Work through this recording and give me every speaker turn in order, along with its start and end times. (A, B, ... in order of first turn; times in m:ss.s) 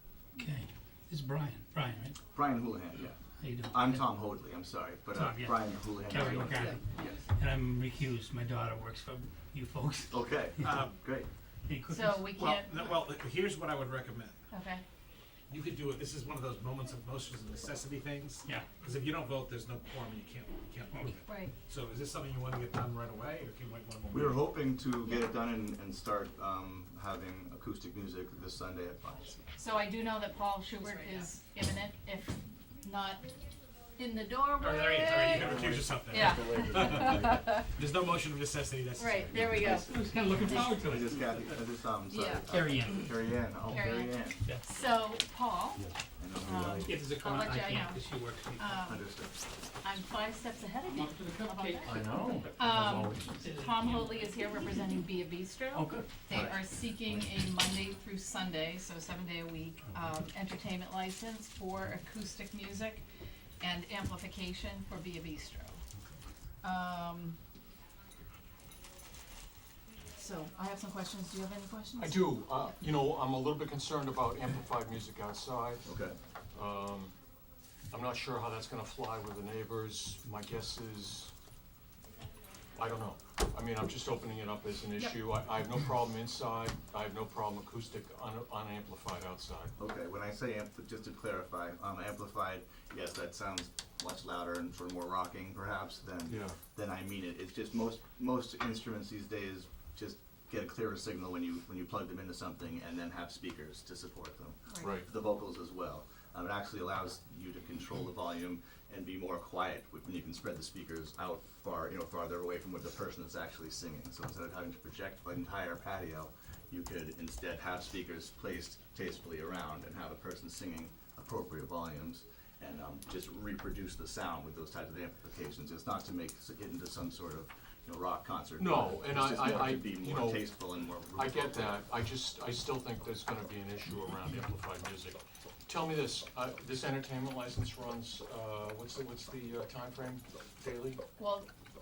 0:00.4-0:02.2 A
0:02.3-0:03.1 B
0:03.4-0:04.1 A
0:03.7-0:07.2 B
0:05.1-0:10.1 A
0:06.2-0:06.8 C
0:10.1-0:11.3 B
0:10.6-0:11.0 D
0:11.7-0:12.2 A
0:11.9-0:13.0 C
0:12.1-0:14.4 D
0:14.5-0:14.8 C
0:15.5-0:24.4 D
0:18.4-0:18.7 A
0:24.1-0:29.4 B
0:29.6-0:33.3 C
0:34.0-0:37.6 C
0:34.6-0:39.8 D
0:39.0-0:40.8 C
0:39.3-0:44.4 B
0:39.7-0:41.4 A
0:42.1-0:42.4 C
0:42.5-0:43.1 A
0:43.7-0:45.8 C
0:44.4-0:44.7 A
0:46.2-0:47.0 B
0:46.4-0:49.0 C
0:46.8-0:48.8 A
0:48.9-0:49.3 B
0:49.8-0:52.0 C
0:51.4-0:53.8 A
0:51.8-0:53.3 E
0:52.6-1:03.0 C
0:55.7-0:56.0 E
0:56.3-0:56.6 B
1:03.6-1:05.8 C
1:06.6-1:07.4 C
1:10.2-1:12.6 C
1:12.0-1:15.9 E
1:15.8-1:16.2 B
1:16.5-1:17.1 E
1:17.9-1:21.3 E
1:22.8-1:29.7 E
1:29.8-2:11.8 B
1:36.2-1:36.6 E
1:44.7-1:45.0 C
1:44.8-1:45.1 E
2:08.6-2:10.6 E
2:11.2-2:21.0 E
2:21.2-2:21.5 C